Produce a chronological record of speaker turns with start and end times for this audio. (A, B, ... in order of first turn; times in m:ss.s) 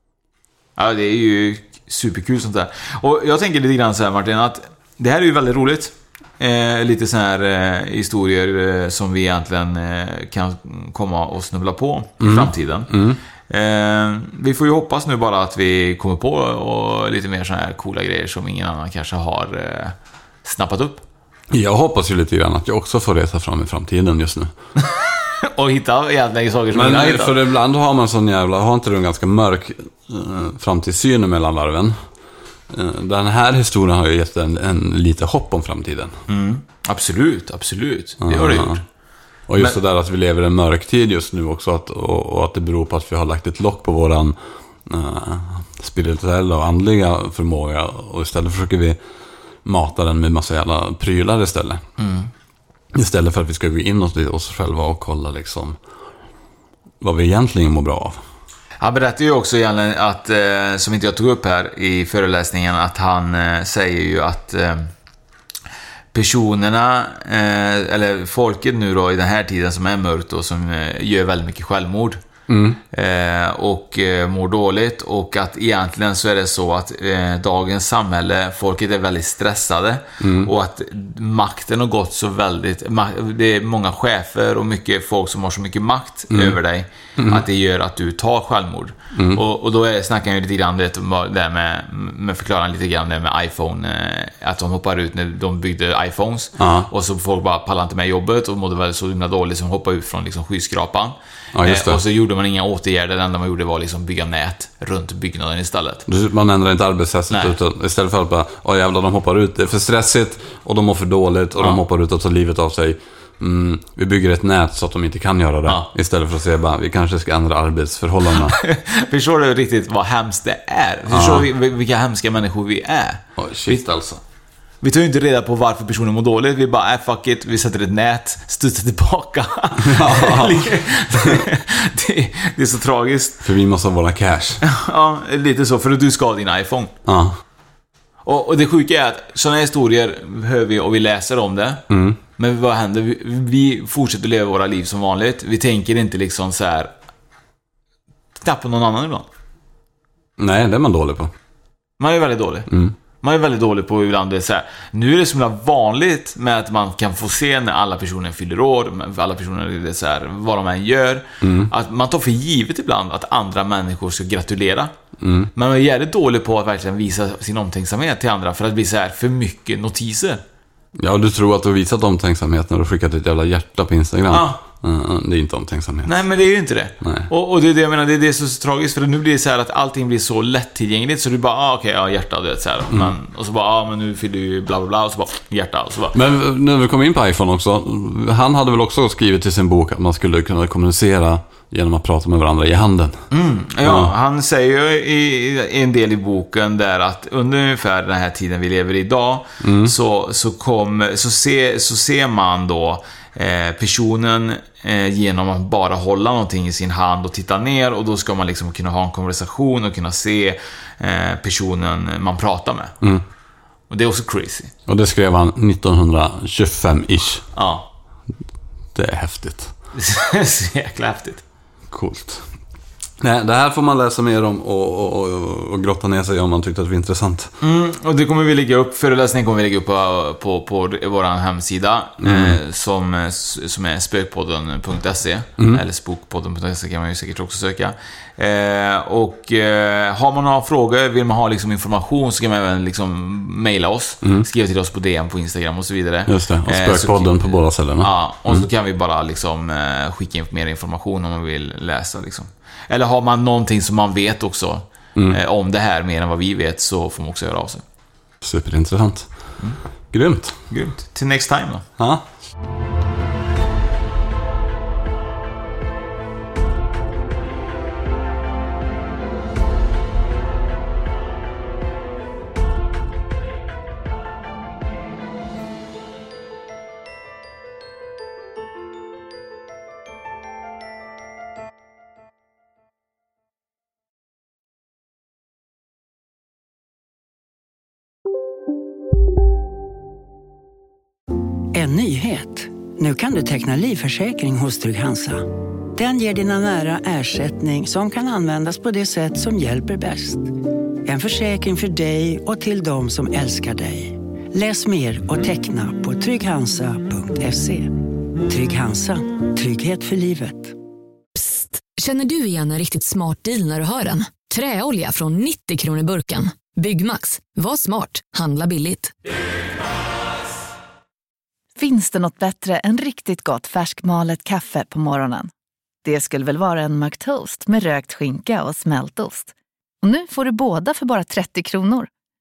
0:00.8-0:12.9 A
0:12.2-0:13.2 B
0:13.5-0:21.0 A
0:21.5-0:24.5 B
0:25.4-0:27.4 A
0:26.7-0:32.0 B
0:32.7-0:36.2 B
0:36.3-0:38.8 A
0:38.2-0:38.8 B
0:39.5-0:49.0 B
0:49.6-0:51.8 B
0:52.0-0:52.3 A
0:52.9-0:55.8 B
0:57.0-0:58.2 B
0:58.8-1:04.9 A
1:06.1-1:12.2 A
1:12.5-1:12.8 B
1:12.9-1:46.0 A
1:20.2-1:20.5 B
1:26.3-1:26.6 B
1:27.2-1:27.4 B
1:29.1-1:29.4 B
1:36.6-1:36.9 B
1:41.5-1:42.0 B
1:46.1-1:58.6 B
1:58.4-2:03.8 A
2:01.1-2:01.5 B
2:03.4-2:04.2 B
2:04.8-2:13.4 A
2:09.8-2:11.5 B
2:13.4-2:14.6 B
2:14.6-2:16.9 A
2:17.1-2:17.4 B
2:18.2-2:21.8 A
2:21.9-2:22.2 B
2:22.4-2:26.9 A
2:28.4-2:29.2 A
2:30.4-2:31.3 B
2:32.0-2:32.7 A
2:32.7-2:32.9 B
2:33.2-2:44.9 A
2:41.4-2:41.7 B
2:45.2-2:45.5 B
2:45.5-2:50.4 A
2:51.0-2:56.1 B
2:54.3-2:54.6 A
2:56.0-3:06.2 A
2:57.0-2:57.3 B
3:02.9-3:03.1 B
3:06.1-3:13.2 B
3:13.3-3:32.9 A
3:13.8-3:14.1 B
3:19.6-3:19.9 B
3:33.9-3:34.7 A
3:34.9-3:37.4 B
3:37.5-3:37.9 A
3:38.9-3:39.7 B
3:40.0-3:41.4 A
3:41.9-3:42.5 B
3:43.2-3:47.5 B
3:47.6-4:07.5 A
3:52.2-3:52.6 B
3:55.6-3:55.8 B
4:06.3-4:08.6 B
4:08.0-4:17.8 A
4:18.4-4:19.3 B
4:20.1-4:20.6 B
4:20.7-4:21.8 A
4:22.0-4:22.2 B
4:51.7-5:00.5 C
5:01.0-5:10.7 C
5:11.3-5:19.1 D
5:21.8-5:25.5 E
5:26.0-5:32.1 E